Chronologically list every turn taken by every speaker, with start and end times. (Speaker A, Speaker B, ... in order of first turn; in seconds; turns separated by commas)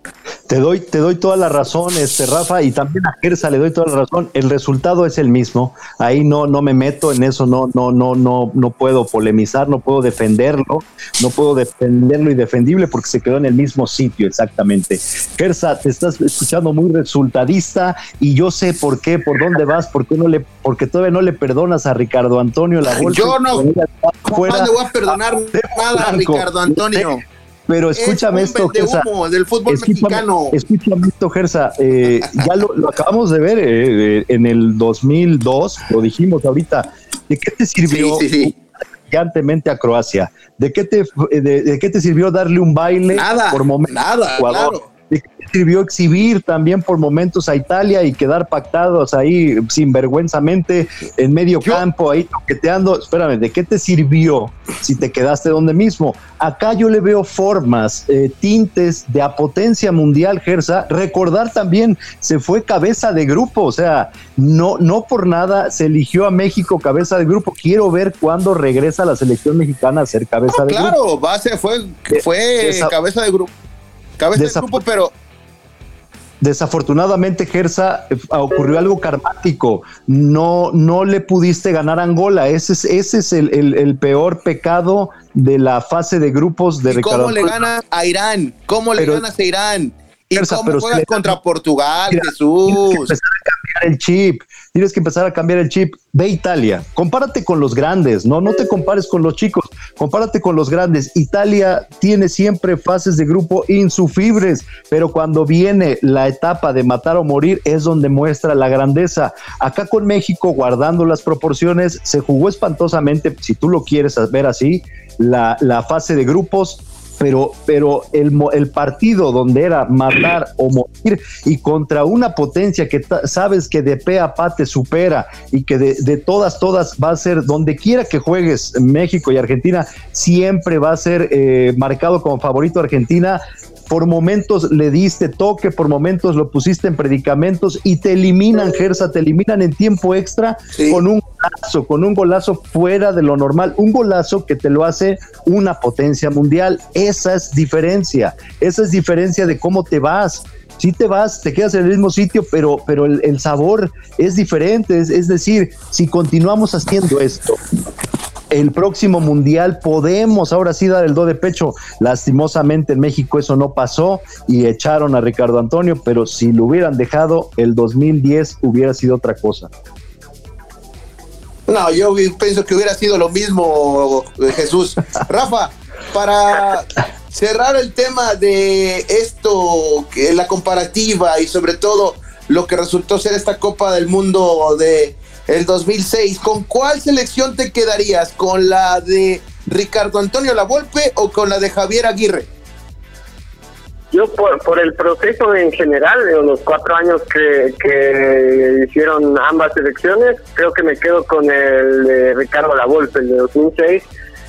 Speaker A: 0.5-24.7, Speaker B: 22.9-23.6, Speaker B: 24.3-27.2, Speaker A: 25.5-27.1, Speaker A: 27.7-29.1, Speaker B: 27.9-30.6, Speaker A: 29.7-71.0, Speaker B: 37.9-38.5, Speaker B: 43.1-44.9, Speaker B: 70.5-73.5, Speaker A: 72.1-72.9, Speaker B: 74.2-75.1, Speaker A: 74.3-74.8, Speaker A: 76.4-87.6, Speaker B: 86.9-93.1, Speaker A: 89.0-89.2, Speaker A: 90.3-91.3, Speaker A: 92.1-157.6, Speaker B: 140.7-141.0, Speaker A: 158.5-169.7, Speaker B: 171.7-192.5, Speaker C: 194.1-204.1